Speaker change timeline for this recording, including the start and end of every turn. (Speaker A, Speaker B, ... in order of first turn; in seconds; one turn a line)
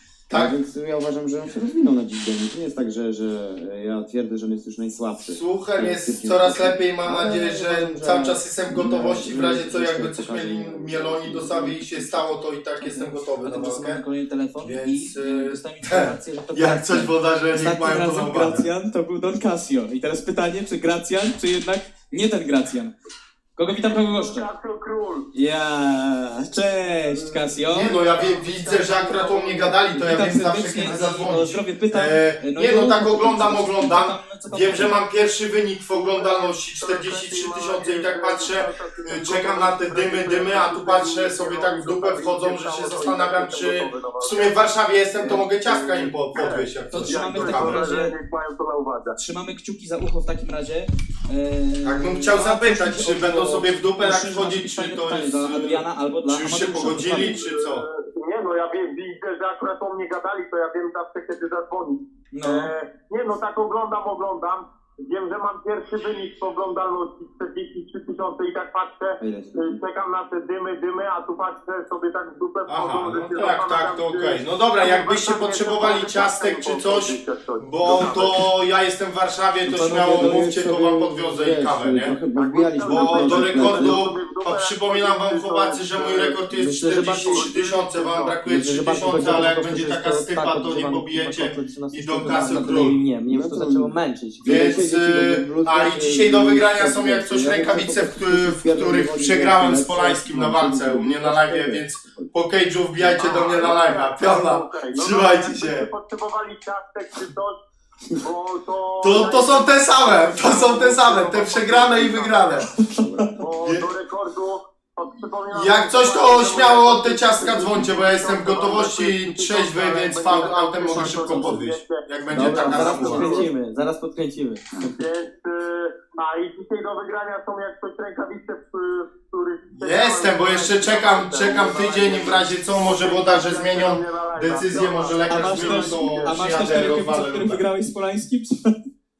Speaker A: 0.3-0.6
Speaker B: 0.3-12.2
Speaker A: 5.3-14.0
Speaker C: 12.8-22.9
Speaker A: 14.6-18.6
Speaker C: 23.6-24.5
Speaker D: 23.7-25.3
Speaker C: 25.3-27.9
Speaker A: 27.7-47.8
Speaker D: 27.8-30.0
Speaker C: 30.0-35.0
Speaker D: 36.0-44.6
Speaker D: 45.2-49.2
Speaker C: 46.9-48.2
Speaker C: 49.2-57.4
Speaker A: 51.8-57.8
Speaker D: 57.1-78.4
Speaker C: 62.3-62.7
Speaker B: 69.2-69.8
Speaker A: 72.7-82.2
Speaker C: 79.6-80.5
Speaker B: 80.0-84.0
Speaker D: 82.4-86.5
Speaker A: 82.8-93.0
Speaker E: 86.5-87.5
Speaker D: 87.0-88.4
Speaker E: 88.4-94.7
Speaker B: 93.3-102.3
Speaker A: 94.5-105.9
Speaker D: 103.2-107.6
Speaker D: 108.2-112.7
Speaker A: 109.0-112.7
Speaker C: 112.8-113.3
Speaker B: 112.9-113.4
Speaker D: 113.4-123.5
Speaker A: 115.5-123.3
Speaker E: 121.1-121.3
Speaker E: 122.3-124.8
Speaker D: 124.9-136.9
Speaker A: 129.8-137.6
Speaker C: 135.3-138.7